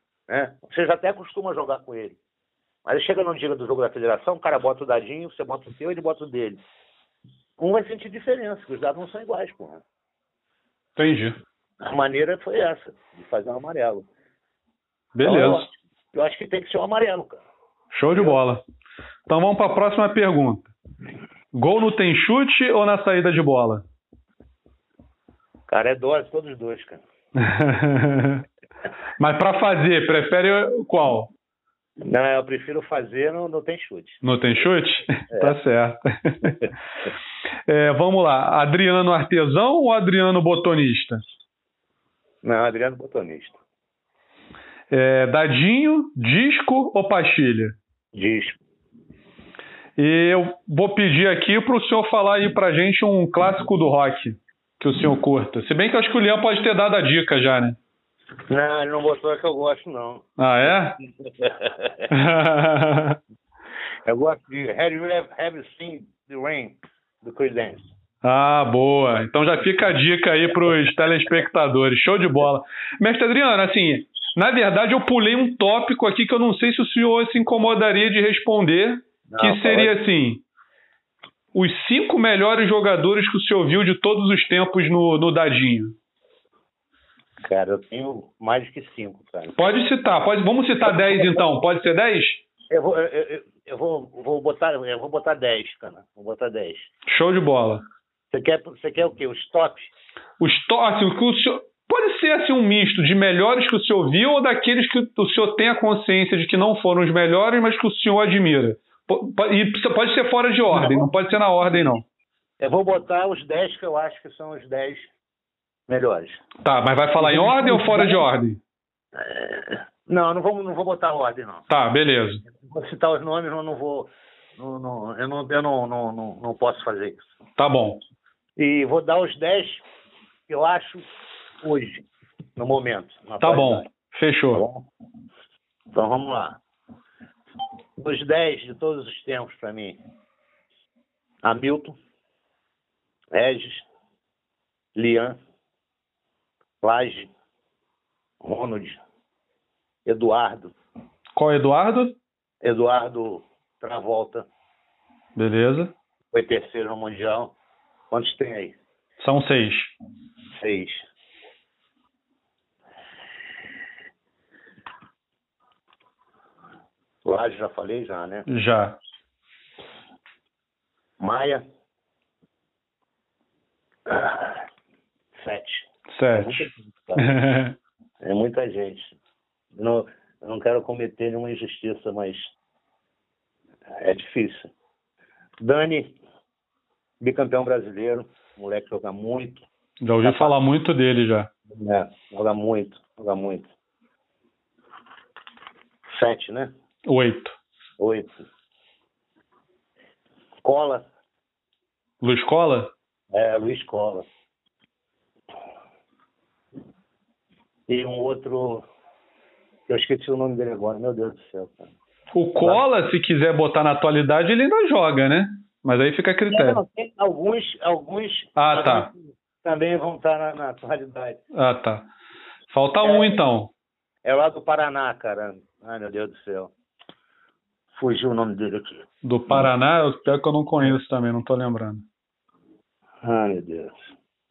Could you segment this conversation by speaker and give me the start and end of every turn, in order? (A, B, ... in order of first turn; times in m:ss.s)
0:00.3-0:02.2 A
0:02.8-0:06.6 A
0:07.6-0:09.8 A
0:11.0-0:11.4 B
0:11.8-0:14.0 A
0:15.2-0:15.6 B
0:15.2-0:17.4 A
0:17.9-0:18.6 B
0:19.3-0:20.7 B
0:21.5-0:23.8 B
0:25.7-0:27.0 A
0:27.4-0:28.4 B
0:29.2-0:31.3 B
0:32.0-0:34.2 A
0:34.2-0:36.6 B
0:35.3-0:35.6 A
0:37.7-0:41.2 B
0:42.4-0:43.6 A
0:44.9-0:47.8 B
0:48.1-0:48.6 A
0:50.0-0:57.8 B
0:58.5-1:02.1 A
1:00.4-1:01.0 B
1:02.1-1:03.2 B
1:04.1-1:07.9 A
1:08.2-1:20.4 B
1:19.3-1:20.0 A
1:21.5-1:25.9 B
1:27.4-1:29.6 A
1:29.6-1:32.4 B
1:30.8-1:31.4 A
1:32.7-1:36.9 A
1:37.1-1:37.8 B
1:38.3-1:39.9 A
1:40.4-1:52.0 B
1:50.7-1:51.1 A
1:52.6-1:55.1 A
1:55.9-1:56.4 A
1:56.6-1:58.6 B
1:57.2-1:58.3 A
1:59.2-2:01.7 A
2:01.7-2:02.4 B
2:02.5-2:07.3 A
2:07.6-2:08.0 B
2:08.6-2:09.8 A
2:10.5-2:11.1 A
2:11.6-2:13.9 A
2:13.4-2:14.6 B
2:14.5-2:14.8 A
2:15.9-2:16.6 A
2:18.0-2:20.0 A
2:21.4-2:22.0 A
2:23.3-2:23.9 A
2:25.0-2:25.4 A
2:26.8-2:27.3 A
2:28.4-2:29.0 A
2:30.0-2:30.7 A
2:31.4-2:32.2 B
2:32.6-2:34.5 A
2:35.4-2:35.9 B
2:36.3-2:37.5 A
2:38.1-2:38.8 A
2:39.2-2:39.9 B
2:40.6-2:41.0 A
2:47.2-2:48.5 A
2:48.5-2:49.0 B
2:51.2-2:51.6 A
2:54.1-2:54.6 A
2:55.4-2:57.3 A
2:56.1-2:57.8 B
2:58.2-2:59.2 A
2:59.8-3:02.5 A
3:04.0-3:04.7 A
3:05.6-3:06.2 A
3:07.2-3:09.7 A
3:10.0-3:11.5 B
3:10.2-3:10.6 A
3:11.7-3:13.7 A
3:16.1-3:16.7 A
3:17.1-3:17.6 B
3:18.0-3:18.4 A
3:20.6-3:21.1 A
3:22.2-3:22.9 B
3:23.3-3:24.3 A
3:27.9-3:28.9 A
3:29.9-3:31.9 A
3:32.3-3:36.8 B
3:36.5-3:41.4 A
3:38.6-3:39.1 B
3:41.5-3:42.1 B
3:42.7-3:43.7 B
3:43.0-3:43.4 A
3:44.2-3:46.7 A
3:47.9-3:49.7 A
3:49.2-3:52.0 B
3:53.2-3:54.0 A